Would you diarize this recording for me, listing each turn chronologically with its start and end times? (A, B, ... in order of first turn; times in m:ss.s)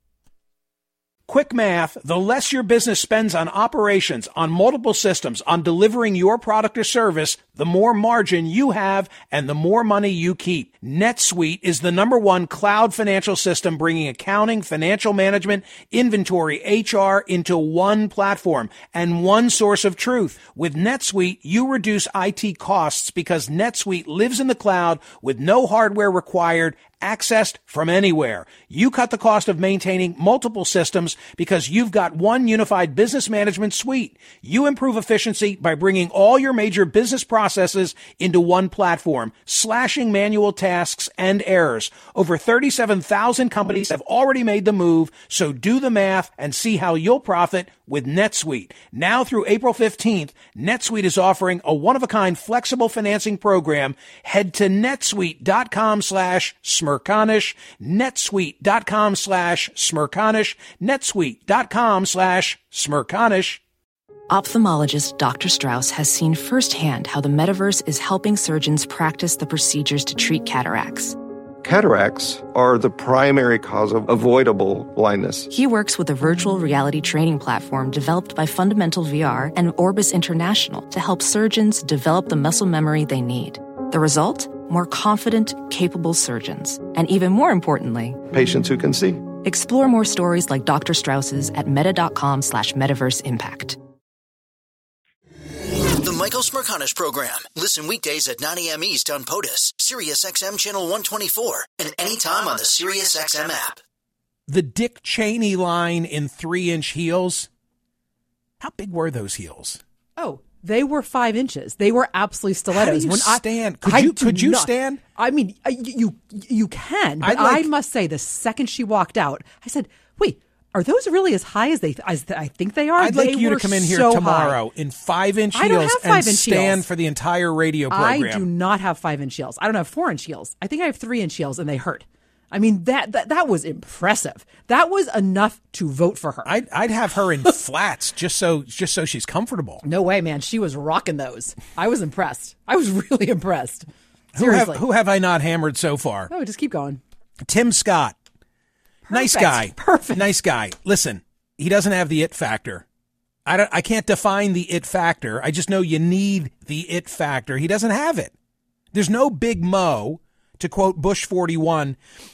0:01.3-1:03.6 A
1:04.3-1:11.2 B
1:11.6-1:15.5 C
1:15.5-1:28.2 B
1:28.3-1:29.3 C
1:29.3-1:33.8 B
1:36.0-1:43.8 D
1:44.5-1:47.5 A
1:48.6-1:49.8 A
1:50.2-2:04.6 E
1:52.7-1:55.0 A
1:57.2-1:57.7 A
2:03.0-2:08.4 A
2:05.5-2:06.8 E
2:07.9-2:16.5 E
2:16.4-2:19.8 A
2:19.8-2:24.8 E
2:24.3-2:26.3 A
2:26.3-2:27.0 E
2:27.5-2:28.1 A
2:29.0-2:30.2 E
2:29.1-2:32.8 A
2:33.4-2:38.3 A
2:38.9-2:42.0 A